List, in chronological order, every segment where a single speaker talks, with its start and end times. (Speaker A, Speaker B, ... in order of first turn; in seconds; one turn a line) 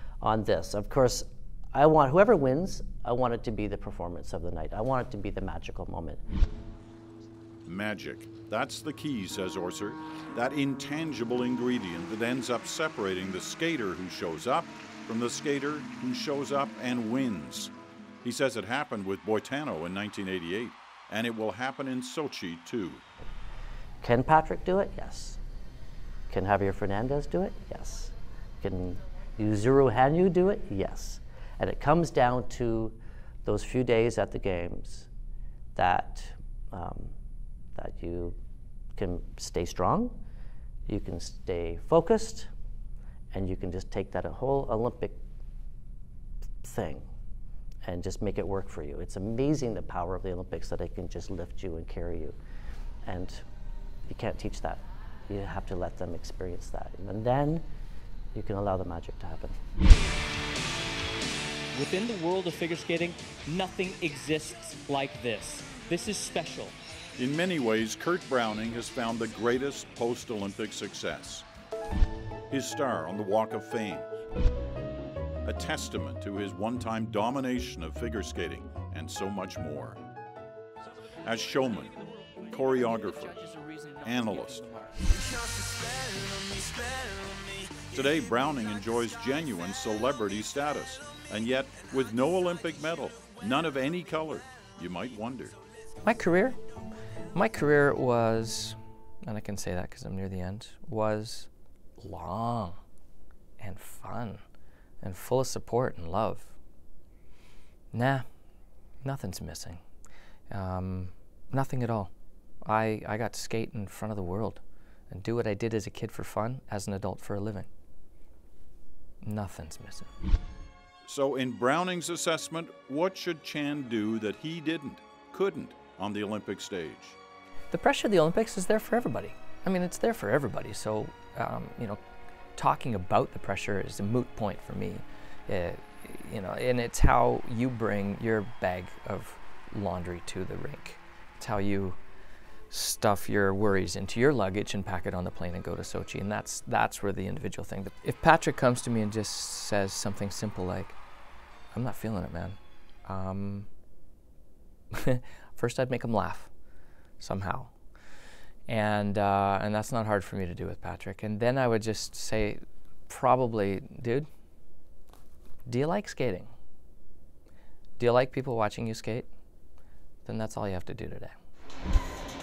Speaker A: 0.2-6.2
Speaker B: 7.7-17.7
Speaker B: 18.2-23.0
Speaker A: 24.0-25.4
Speaker A: 26.3-35.1
Speaker A: 35.8-37.1
Speaker A: 37.8-38.4
Speaker A: 39.0-40.2
Speaker A: 40.9-42.5
Speaker A: 43.3-45.2
Speaker A: 46.6-47.1
Speaker A: 47.8-52.4
Speaker A: 53.0-53.5
Speaker A: 54.1-57.7
Speaker A: 58.3-59.6
Speaker C: 61.7-66.7
Speaker B: 67.2-71.5
Speaker B: 72.5-74.1
Speaker B: 75.5-80.0
Speaker B: 81.2-82.0
Speaker B: 82.5-83.5
Speaker C: 82.8-84.8
Speaker B: 84.0-84.7
Speaker B: 87.8-95.6
Speaker D: 96.0-96.6
Speaker D: 97.3-102.8
Speaker D: 103.6-104.4
Speaker D: 105.0-106.5
Speaker D: 107.9-108.3
Speaker D: 109.0-109.8
Speaker D: 110.5-112.1
Speaker D: 112.6-117.7
Speaker D: 119.2-120.1
Speaker B: 121.0-127.2
Speaker D: 127.7-132.0
Speaker D: 132.6-142.0
Speaker D: 142.7-151.0
Speaker D: 151.7-153.7
Speaker D: 155.0-156.5
Speaker D: 157.2-157.8
Speaker D: 158.7-164.3
Speaker D: 165.7-166.5
Speaker D: 168.0-169.3
Speaker D: 170.2-171.3